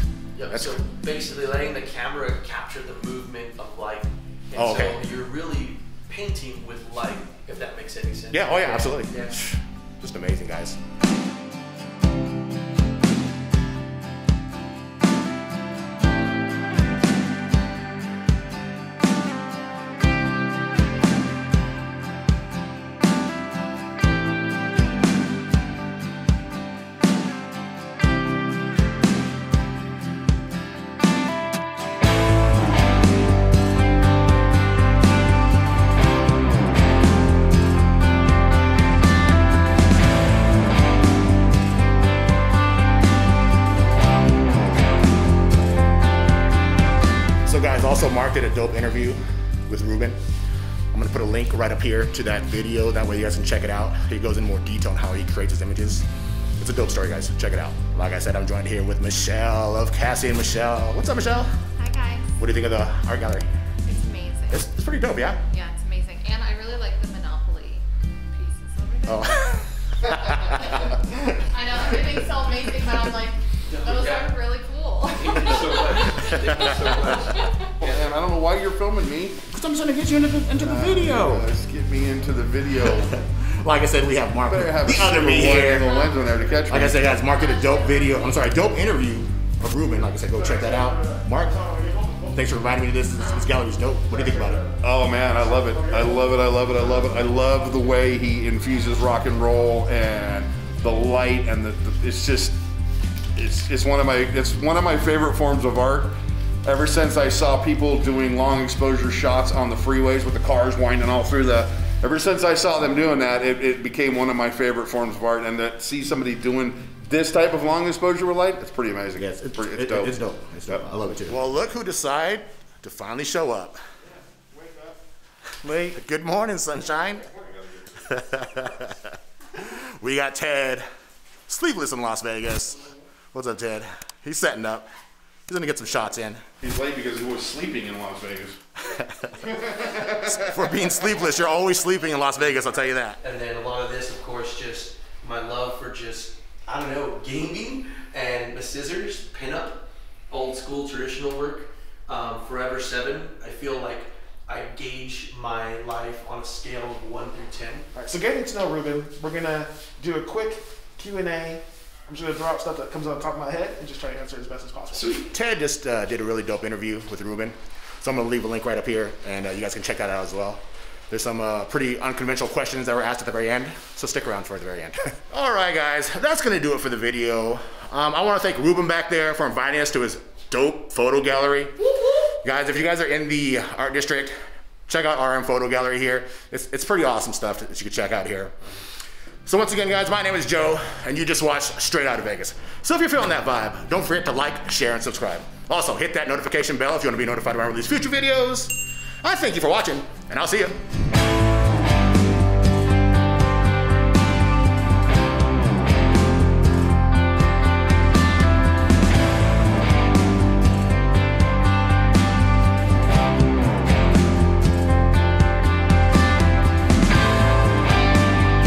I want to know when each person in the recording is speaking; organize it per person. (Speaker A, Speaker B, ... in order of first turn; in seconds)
Speaker A: 0.3-9.4, 73.7-74.3, 75.1-77.9, 143.2-157.9, 164.9-165.3
Speaker B: 0.5-0.8, 4.5-5.0, 8.3-10.8, 47.5-50.2, 50.9-56.0, 56.6-61.5, 62.4-63.5, 64.5-65.4, 69.1-71.2, 76.4-77.2, 79.5-81.5, 83.0-86.0, 86.7-94.7, 119.2-123.8, 125.6-127.3, 128.0-130.9, 131.5-134.9, 135.5-136.4, 138.8-143.2, 165.3-184.3, 184.9-188.5, 189.5-200.8
Speaker C: 61.8-62.3, 63.9-64.7, 65.5-77.6, 85.3-88.4
Speaker D: 77.8-79.4, 80.6-83.2, 84.5-87.1, 94.7-102.6, 103.3-120.2, 127.6-127.9, 136.6-138.6, 139.7-140.1
Speaker E: 157.9-165.2